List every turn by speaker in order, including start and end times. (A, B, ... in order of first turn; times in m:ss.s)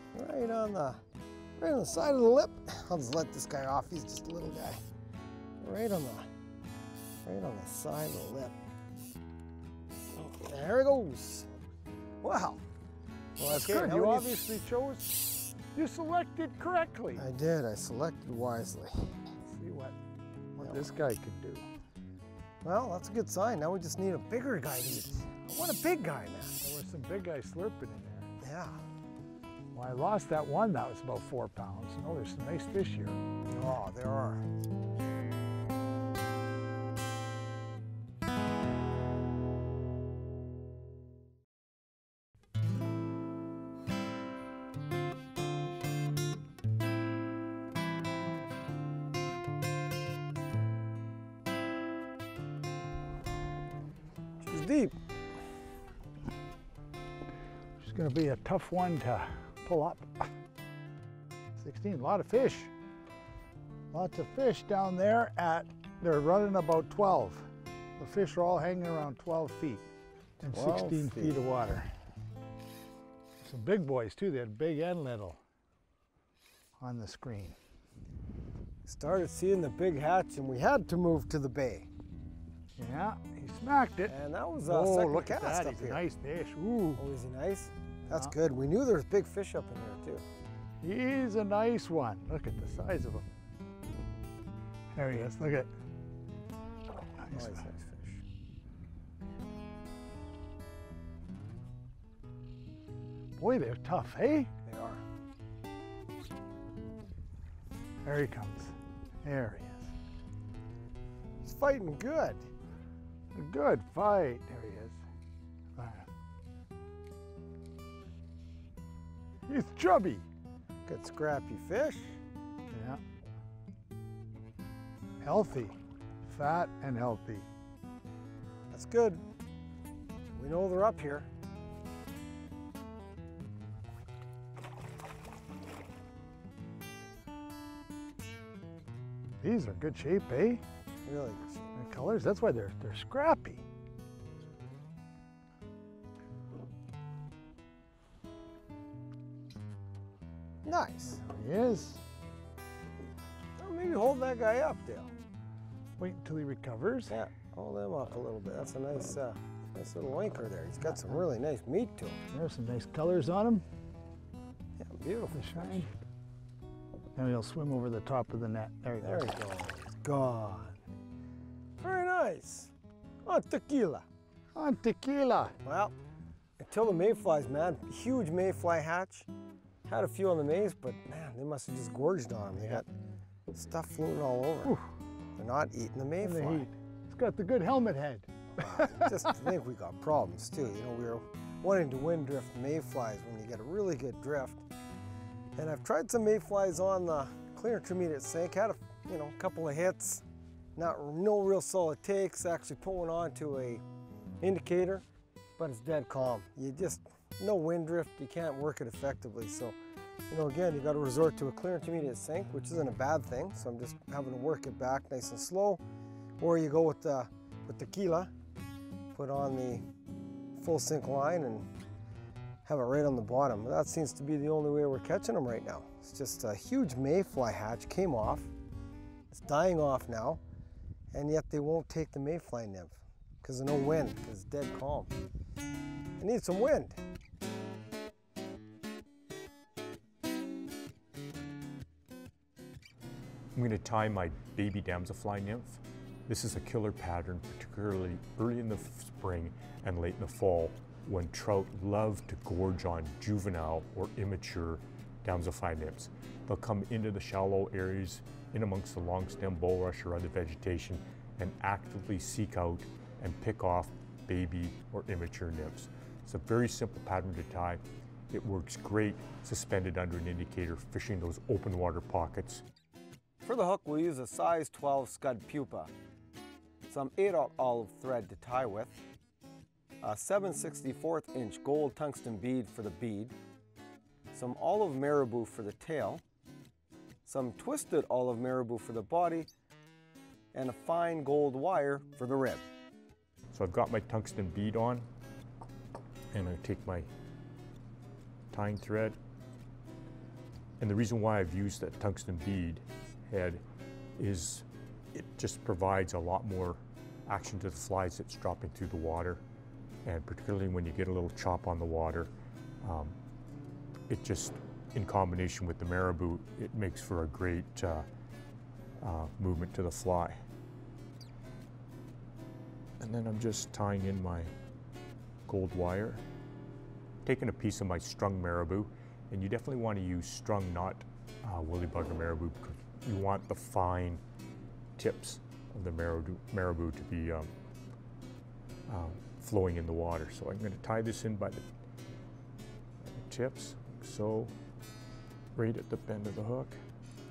0:00.1-0:01.0 A
0:01.6-0:04.8 A
0:05.6-0:06.3 A
0:07.2-0:08.6 A
0:10.1-0:11.5 A
0:12.2-0:12.6 A
0:13.4-0:14.4 A
0:13.4-0:17.3 B
0:17.2-0:19.0 A
0:19.4-0:20.0 B
0:20.5-0:21.6 B
0:20.6-0:20.9 A
0:22.6-0:26.6 A
0:26.6-0:28.3 B
0:28.4-0:28.8 A
0:29.7-0:33.2 B
0:33.5-0:34.4 A
0:54.4-0:55.0 A
0:57.8-1:00.3 B
1:01.6-1:02.7 B
1:03.9-1:07.5 B
1:08.0-1:09.9 B
1:10.4-1:11.9 B
1:10.5-1:11.4 A
1:13.4-1:15.4 B
1:16.8-1:17.6 B
1:18.9-1:21.9 A
1:22.8-1:27.0 B
1:24.1-1:26.0 A
1:27.0-1:30.2 A
1:30.8-1:33.3 B
1:35.0-1:35.7 B
1:37.2-1:37.6 B
1:37.3-1:38.2 A
1:43.4-1:44.5 B
1:44.6-1:45.0 A
1:48.0-1:49.9 B
1:51.4-1:52.5 A
1:53.3-1:55.0 B
1:55.8-1:56.1 B
1:59.5-2:00.2 B
2:00.9-2:02.2 A
2:02.7-2:03.0 B
2:05.2-2:07.5 B
2:08.7-2:09.2 A
2:10.4-2:11.3 A
2:19.4-2:20.6 B
2:21.0-2:21.7 A
2:21.7-2:23.6 B
2:30.6-2:31.2 A
2:31.1-2:32.0 B
2:33.6-2:35.1 A
2:36.0-2:37.1 B
2:37.1-2:42.2 A
2:42.3-2:43.6 B
2:44.8-2:45.9 A
2:45.3-2:46.0 B
2:47.1-2:49.2 B
2:49.0-2:50.8 A
2:51.8-2:52.7 A
2:53.2-2:54.0 A
2:54.5-2:55.6 B
2:55.6-2:55.9 A
2:56.6-2:59.3 A
2:59.9-3:02.9 A
3:03.5-3:04.8 A
3:05.4-3:06.7 A
3:06.2-3:09.4 B
3:08.6-3:14.6 A
3:15.6-3:20.2 A
3:20.8-3:23.8 A
3:24.4-3:25.0 A
3:25.6-3:29.8 A
3:30.3-3:35.8 A
3:36.4-3:38.3 A
3:39.1-3:39.8 A
3:40.5-3:41.7 A
3:42.6-3:48.5 A
3:49.3-3:50.4 A
3:51.1-3:55.1 A
3:56.2-3:57.0 A
4:03.5-4:32.6 C
4:33.4-4:35.9 A
4:36.9-4:39.0 A
4:40.0-4:43.4 A
4:44.3-4:46.2 A
4:47.2-4:49.5 A
4:50.5-4:52.6 A
4:53.5-4:55.1 C
4:56.3-4:57.1 C
4:58.5-4:59.2 C
5:00.8-5:03.6 C
5:04.2-5:09.4 C
5:10.0-5:12.3 C
5:12.8-5:13.2 C
5:14.1-5:18.1 C
5:19.0-5:20.4 C
5:23.0-5:24.5 C
5:25.5-5:26.2 C
5:27.2-5:34.2 C
5:35.0-5:37.5 C
5:38.9-5:41.6 C
5:43.0-5:44.5 C
5:45.5-5:46.8 C